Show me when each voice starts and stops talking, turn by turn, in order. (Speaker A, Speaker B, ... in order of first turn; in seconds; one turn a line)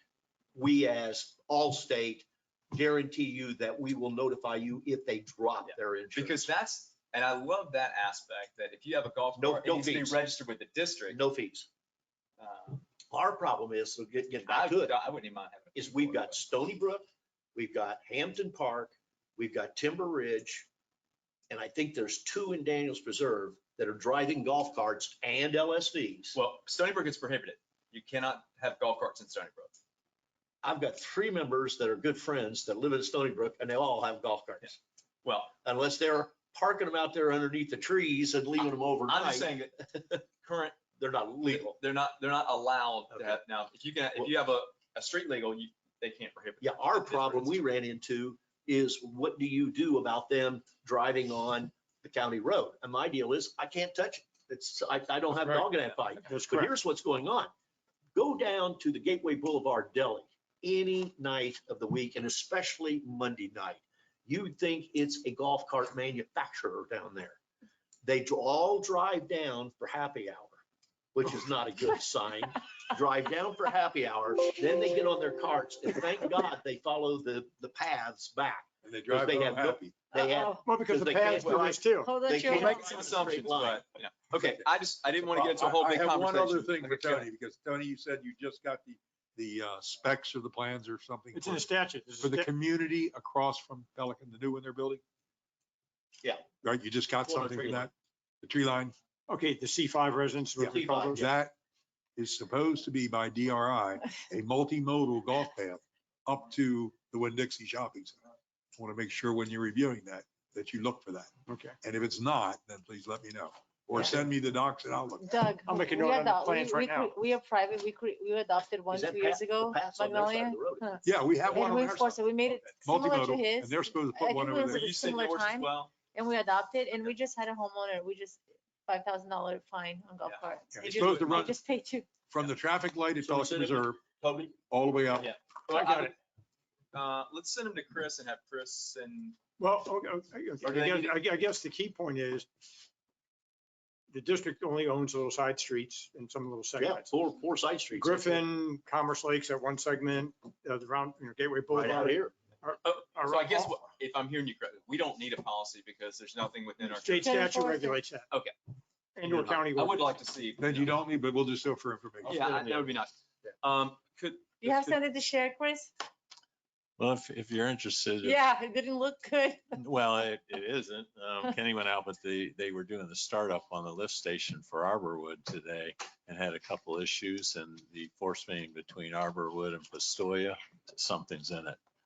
Speaker A: 0.6-6.5
Speaker B: 5.6-11.2
Speaker A: 9.4-10.2
Speaker A: 11.1-11.7
Speaker B: 12.4-12.8
Speaker A: 13.1-14.9
Speaker B: 14.4-16.4
Speaker A: 15.8-20.7
Speaker A: 21.5-26.4
Speaker B: 26.3-29.8
Speaker A: 30.6-34.8
Speaker B: 35.2-35.5
Speaker A: 35.6-40.2
Speaker B: 39.1-40.8
Speaker A: 41.0-41.8
Speaker B: 41.5-47.6
Speaker A: 43.1-43.4
Speaker A: 46.6-57.5
Speaker C: 55.4-55.7
Speaker C: 56.3-56.7
Speaker A: 58.1-67.4
Speaker A: 68.0-70.6
Speaker A: 71.1-83.8
Speaker D: 78.8-79.9
Speaker E: 80.2-80.6
Speaker C: 80.7-82.1
Speaker B: 81.3-81.7
Speaker E: 82.0-83.0
Speaker B: 82.5-87.3
Speaker D: 85.3-91.7
Speaker C: 91.3-92.5
Speaker D: 92.2-95.0
Speaker D: 96.6-99.0
Speaker A: 97.2-97.9
Speaker C: 99.3-101.2
Speaker D: 100.6-101.5
Speaker A: 100.6-101.3
Speaker D: 102.2-108.2
Speaker D: 108.8-115.5
Speaker C: 111.5-111.7
Speaker E: 115.2-132.1
Speaker C: 115.7-117.1
Speaker A: 118.9-122.0
Speaker D: 121.0-124.9
Speaker B: 124.7-125.9
Speaker B: 130.2-131.5
Speaker D: 130.7-131.6
Speaker D: 132.3-134.0
Speaker A: 133.2-134.6
Speaker D: 134.7-135.3
Speaker B: 135.2-136.2
Speaker C: 135.7-136.1
Speaker B: 136.9-139.4
Speaker C: 139.6-142.5
Speaker B: 140.6-141.1
Speaker C: 144.1-147.1
Speaker A: 146.8-148.4
Speaker C: 147.9-153.8
Speaker A: 151.7-152.3
Speaker B: 152.8-157.4
Speaker C: 156.8-158.3
Speaker E: 157.2-158.1
Speaker C: 159.2-160.0
Speaker B: 159.2-160.9
Speaker D: 160.6-162.7
Speaker B: 162.2-165.0
Speaker A: 162.3-162.9
Speaker E: 164.6-165.9
Speaker F: 167.0-168.4
Speaker E: 168.2-169.8
Speaker F: 169.8-181.8